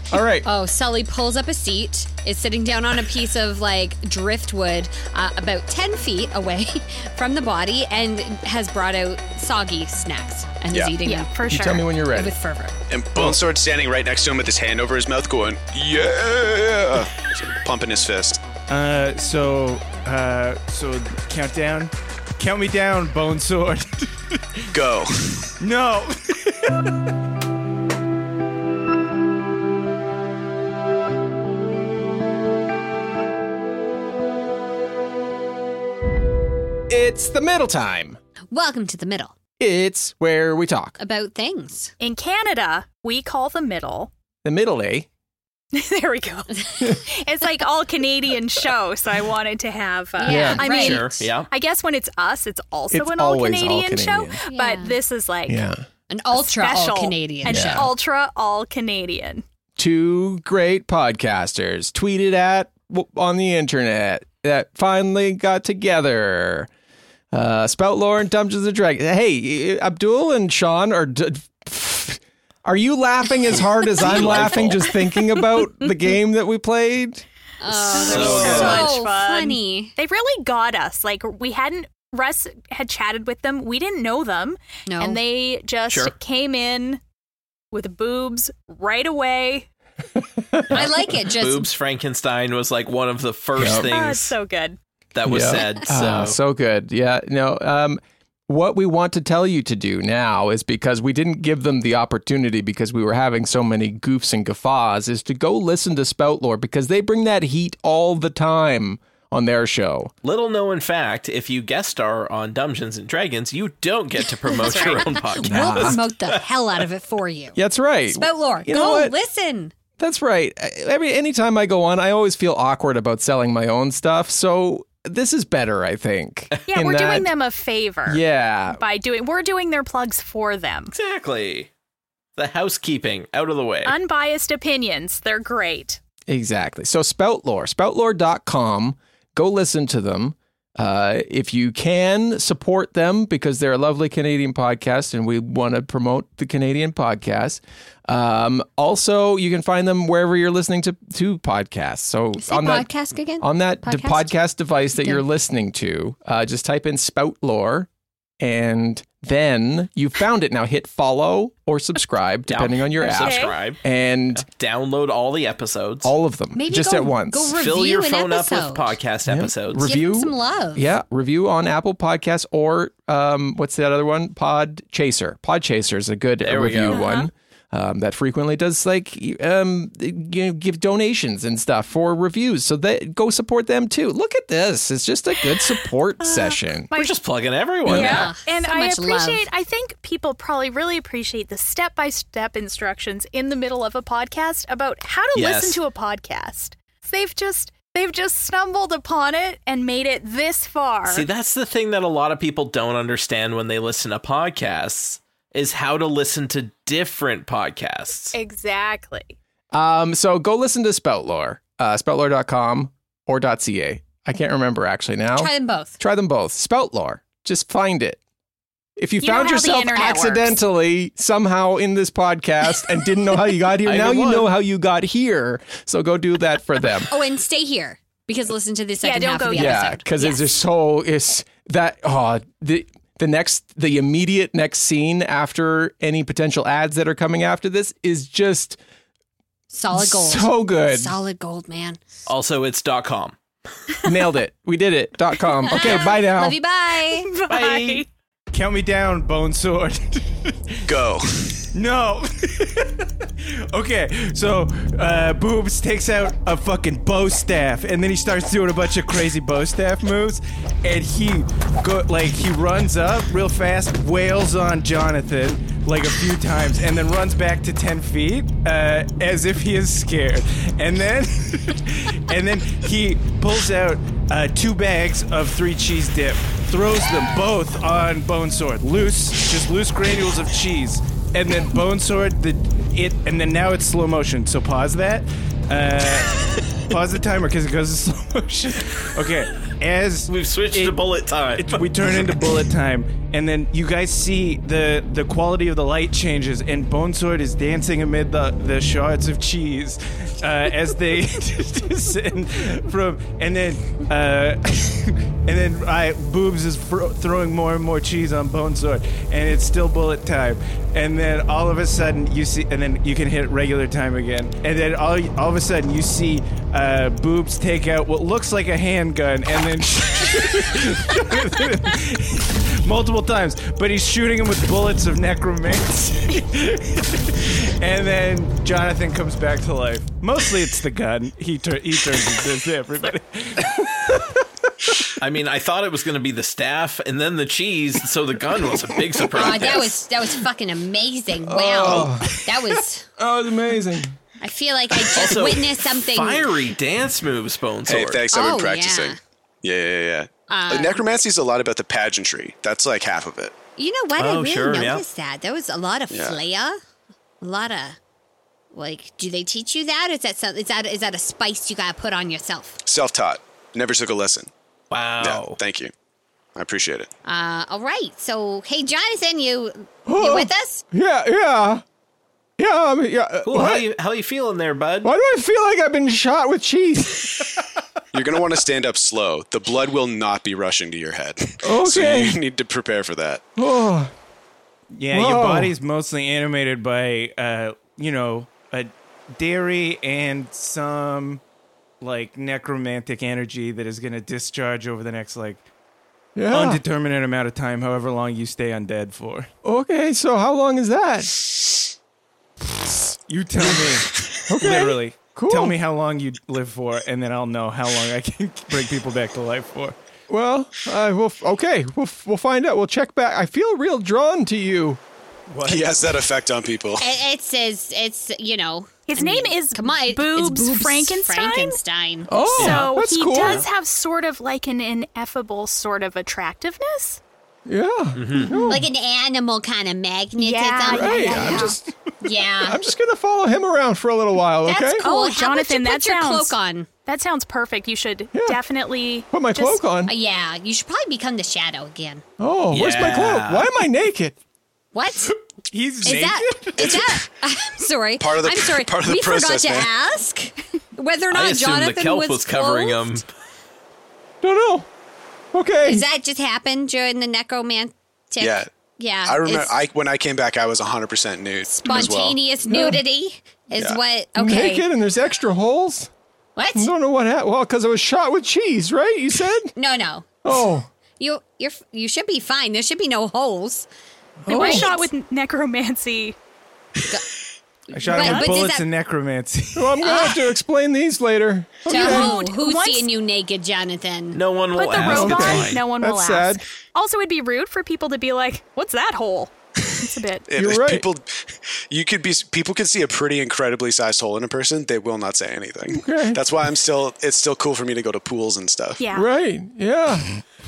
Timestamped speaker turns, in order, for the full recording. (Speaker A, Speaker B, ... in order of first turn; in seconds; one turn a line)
Speaker A: 0.1-0.5
Speaker B: 0.4-11.3
Speaker C: 11.0-11.9
Speaker A: 11.5-12.3
Speaker B: 12.1-12.8
Speaker D: 12.9-18.4
Speaker E: 18.7-24.7
Speaker D: 24.7-25.5
Speaker E: 25.6-26.9
Speaker A: 36.9-38.2
Speaker B: 38.5-39.4
Speaker A: 39.6-41.0
Speaker B: 41.0-41.9
Speaker C: 42.0-44.1
Speaker A: 44.4-45.1
Speaker C: 45.7-55.6
Speaker B: 50.2-51.1
Speaker A: 50.2-50.7
Speaker F: 50.6-51.5
Speaker A: 52.9-54.4
Speaker B: 54.5-55.0
Speaker A: 55.5-55.9
Speaker B: 56.1-57.9
Speaker C: 56.4-59.4
Speaker A: 57.5-57.9
Speaker A: 59.8-66.7
Speaker A: 67.3-77.2
Speaker F: 74.0-74.9
Speaker B: 77.6-79.9
Speaker F: 77.9-79.0
Speaker C: 77.9-87.0
Speaker B: 84.9-85.2
Speaker F: 85.9-86.2
Speaker C: 87.7-89.7
Speaker B: 90.7-91.7
Speaker F: 90.7-94.3
Speaker A: 93.5-93.9
Speaker C: 93.8-94.8
Speaker F: 95.1-96.4
Speaker A: 95.2-110.1
Speaker B: 95.5-95.8
Speaker F: 110.2-116.4
Speaker B: 114.5-117.6
Speaker A: 115.5-116.0
Speaker A: 117.5-119.1
Speaker B: 118.1-119.7
Speaker A: 120.0-127.3
Speaker C: 126.7-130.9
Speaker A: 128.1-128.8
Speaker F: 130.9-131.7
Speaker F: 132.4-134.0
Speaker C: 133.8-136.0
Speaker A: 136.3-157.9
Speaker B: 152.4-154.3
Speaker B: 154.9-155.2
Speaker A: 158.4-164.5
Speaker F: 162.5-163.8
Speaker C: 163.1-163.6
Speaker F: 164.3-166.1
Speaker A: 166.0-167.5
Speaker B: 166.6-169.0
Speaker F: 167.5-169.9
Speaker A: 169.3-186.9
Speaker B: 169.8-170.9
Speaker F: 176.4-177.0
Speaker C: 176.9-177.3
Speaker C: 186.2-187.1
Speaker F: 186.9-188.3
Speaker C: 187.9-201.3
Speaker B: 187.9-189.5
Speaker F: 195.3-195.8
Speaker F: 201.1-208.4
Speaker C: 208.3-209.3
Speaker A: 209.7-218.2
Speaker B: 215.3-216.0
Speaker A: 219.0-227.1
Speaker C: 219.2-220.6
Speaker F: 223.8-224.5
Speaker B: 227.1-230.5
Speaker C: 229.0-229.9
Speaker A: 229.5-238.8
Speaker B: 239.7-242.0
Speaker A: 239.9-241.1
Speaker F: 242.3-243.4
Speaker A: 244.1-246.6
Speaker B: 245.7-247.3
Speaker C: 245.7-246.1
Speaker C: 247.0-248.1
Speaker F: 247.5-248.0
Speaker E: 248.5-250.9
Speaker D: 250.9-251.7
Speaker E: 251.7-291.0
Speaker F: 290.3-292.3
Speaker E: 291.6-333.7
Speaker F: 335.2-340.0
Speaker B: 339.3-343.1
Speaker A: 341.4-342.4
Speaker A: 343.2-344.2
Speaker B: 344.4-346.6
Speaker F: 345.1-348.3
Speaker D: 347.9-353.5
Speaker B: 348.3-349.2
Speaker B: 350.5-351.0
Speaker B: 353.8-356.8
Speaker F: 354.2-355.1
Speaker D: 356.1-356.4
Speaker B: 357.4-358.0
Speaker B: 358.7-362.8
Speaker D: 362.9-364.5
Speaker F: 364.9-365.6
Speaker D: 365.2-365.9
Speaker D: 366.6-367.1
Speaker B: 367.2-370.8
Speaker A: 370.1-371.8
Speaker A: 372.6-373.9
Speaker F: 373.4-375.1
Speaker A: 375.0-377.4
Speaker D: 378.1-383.4
Speaker A: 381.6-382.4
Speaker A: 383.6-384.1
Speaker E: 384.9-391.4
Speaker A: 385.1-385.7
Speaker E: 392.0-395.6
Speaker A: 396.4-396.8
Speaker E: 396.5-399.5
Speaker A: 399.6-401.3
Speaker E: 402.9-410.0
Speaker A: 404.5-405.8
Speaker A: 410.3-415.0
Speaker E: 415.5-416.0
Speaker D: 415.6-417.0
Speaker B: 417.0-422.6
Speaker C: 419.1-421.8
Speaker A: 422.3-423.7
Speaker F: 422.6-422.9
Speaker C: 422.6-427.2
Speaker A: 427.7-428.9
Speaker F: 428.1-428.6
Speaker B: 428.4-432.8
Speaker C: 430.4-431.8
Speaker A: 430.9-431.8
Speaker A: 432.6-435.1
Speaker B: 434.6-436.9
Speaker C: 435.0-439.9
Speaker A: 438.3-438.6
Speaker A: 439.3-440.1
Speaker B: 440.1-442.2
Speaker A: 442.4-444.4
Speaker F: 442.7-443.7
Speaker B: 444.9-445.3
Speaker E: 445.7-447.1
Speaker B: 446.0-453.2
Speaker D: 448.2-449.9
Speaker F: 451.3-453.3
Speaker A: 454.4-454.9
Speaker A: 455.5-456.1
Speaker B: 455.8-459.7
Speaker D: 458.4-458.7
Speaker D: 459.2-462.4
Speaker B: 461.7-464.9
Speaker A: 462.7-463.0
Speaker A: 464.4-466.1
Speaker B: 466.6-466.9
Speaker A: 466.7-469.7
Speaker B: 469.8-470.5
Speaker A: 470.4-470.9
Speaker B: 471.2-473.9
Speaker A: 474.4-474.9
Speaker C: 474.5-476.4
Speaker B: 474.5-475.1
Speaker B: 477.9-478.9
Speaker E: 477.9-480.1
Speaker C: 478.1-478.6
Speaker A: 479.8-482.4
Speaker B: 480.0-480.4
Speaker B: 481.9-484.4
Speaker C: 481.9-483.1
Speaker F: 484.3-485.9
Speaker C: 484.7-490.5
Speaker A: 485.0-486.6
Speaker D: 490.5-499.0
Speaker A: 490.6-491.1
Speaker A: 495.9-496.4
Speaker C: 499.0-499.3
Speaker A: 499.1-500.3